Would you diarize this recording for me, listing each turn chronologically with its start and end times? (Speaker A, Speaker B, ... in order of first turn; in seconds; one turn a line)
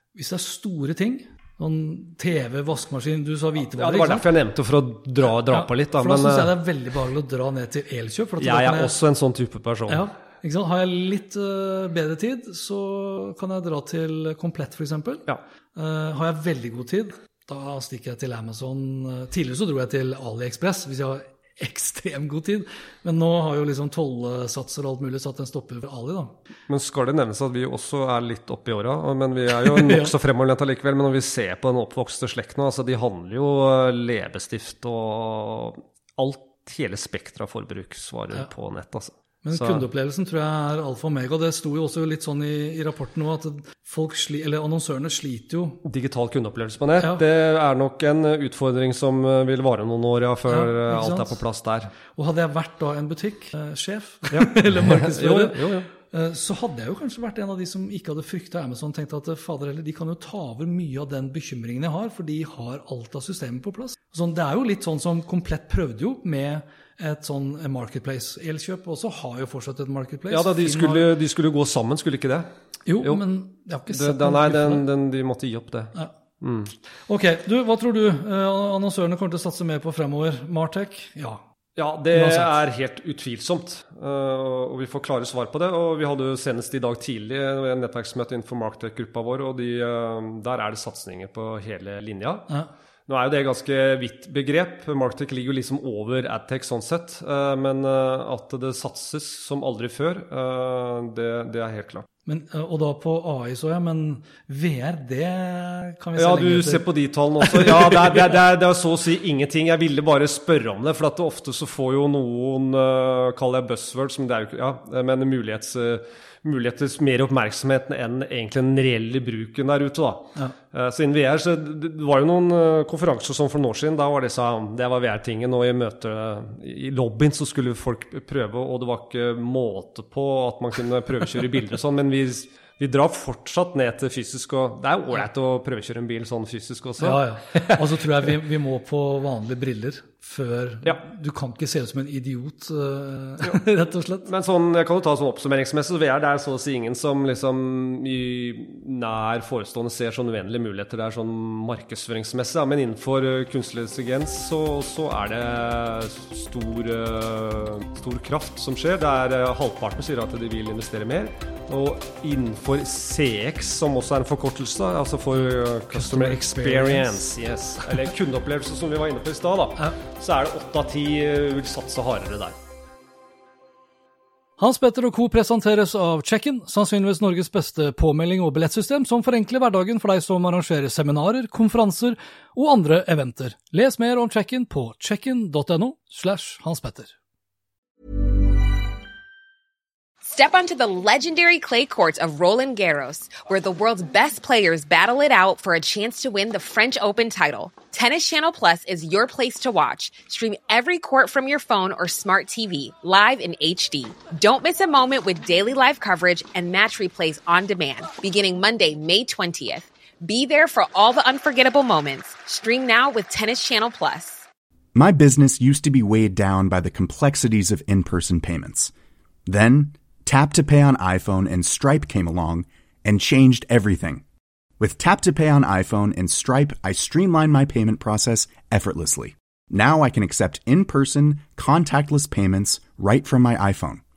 Speaker A: 0.1-4.3
Speaker B: 3.7-6.5
Speaker A: 5.3-9.0
Speaker B: 8.4-10.0
Speaker A: 9.9-26.3
Speaker B: 26.7-39.8
Speaker A: 29.6-30.1
Speaker A: 39.4-45.8
Speaker B: 45.8-51.9
Speaker A: 47.0-47.2
Speaker A: 50.5-51.4
Speaker A: 52.1-71.1
Speaker B: 54.3-55.9
Speaker B: 70.3-72.5
Speaker A: 72.9-74.8
Speaker B: 73.9-76.7
Speaker A: 77.1-81.4
Speaker B: 81.8-92.5
Speaker A: 82.1-82.5
Speaker B: 93.1-102.1
Speaker A: 102.2-106.9
Speaker B: 106.2-138.2
Speaker A: 107.4-108.4
Speaker A: 137.0-144.3
Speaker B: 144.2-172.6
Speaker A: 165.9-167.2
Speaker A: 174.6-187.1
Speaker C: 190.2-214.4
Speaker D: 214.9-218.9
Speaker D: 219.5-224.2
Speaker D: 224.8-234.0